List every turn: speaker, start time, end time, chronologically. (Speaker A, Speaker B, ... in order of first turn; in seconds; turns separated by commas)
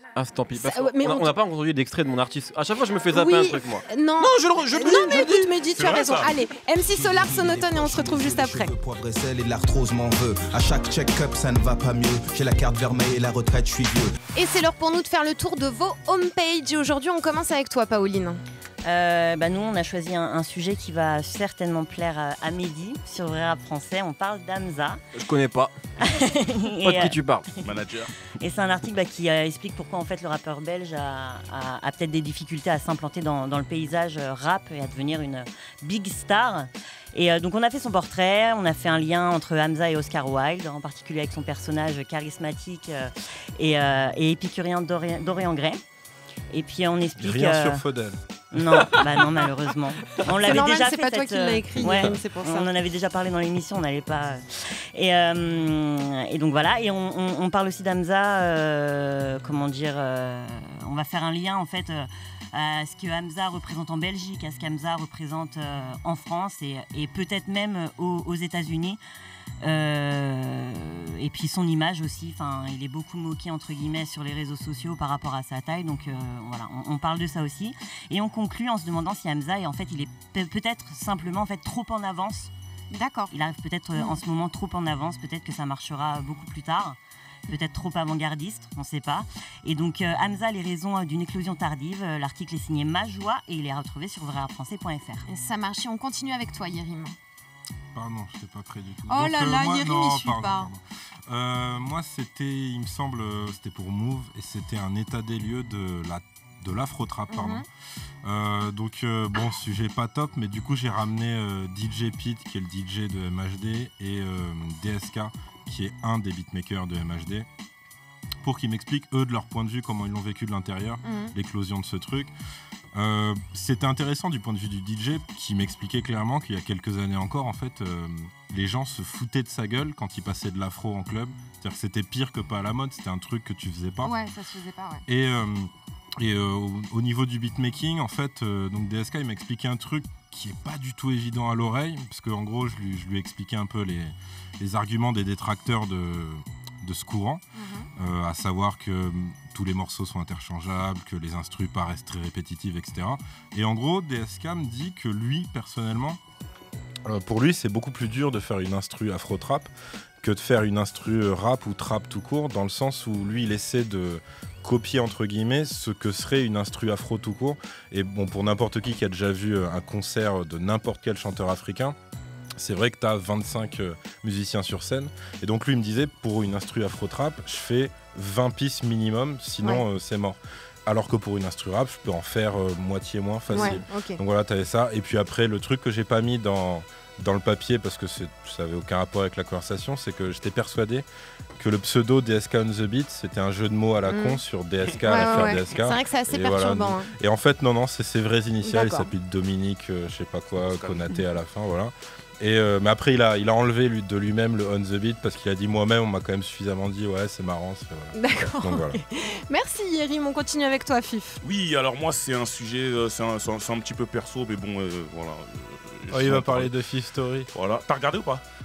Speaker A: 0.2-5.5, Speaker B: 0.6-1.3, Speaker B: 3.1-8.7, Speaker C: 5.7-6.3, Speaker D: 6.9-14.2, Speaker B: 14.3-18.4, Speaker E: 18.9-25.0, Speaker A: 25.1-25.7, Speaker E: 26.0-27.2, Speaker A: 26.8-27.5, Speaker C: 27.6-28.1, Speaker E: 28.4-45.8, Speaker E: 46.5-47.8, Speaker F: 47.2-48.2, Speaker E: 48.5-69.0, Speaker B: 50.3-52.7, Speaker E: 69.6-82.5, Speaker B: 82.9-83.3, Speaker E: 83.3-87.0, Speaker E: 87.5-95.3, Speaker B: 95.3-97.2, Speaker F: 97.9-107.7, Speaker B: 99.1-100.7, Speaker B: 107.3-107.7, Speaker F: 108.2-117.5, Speaker F: 118.4-122.3, Speaker B: 121.0-121.3, Speaker F: 122.9-134.2, Speaker B: 134.0-135.1, Speaker F: 135.1-147.4, Speaker B: 147.6-147.9, Speaker F: 148.0-156.2, Speaker F: 157.1-159.7, Speaker F: 160.2-172.0, Speaker F: 172.6-209.0, Speaker B: 183.5-184.2, Speaker B: 194.1-194.4, Speaker B: 195.1-197.1, Speaker B: 198.6-199.1, Speaker C: 200.7-201.1, Speaker B: 208.2-211.4, Speaker C: 211.4-216.7, Speaker F: 216.1-217.5, Speaker C: 217.5-218.4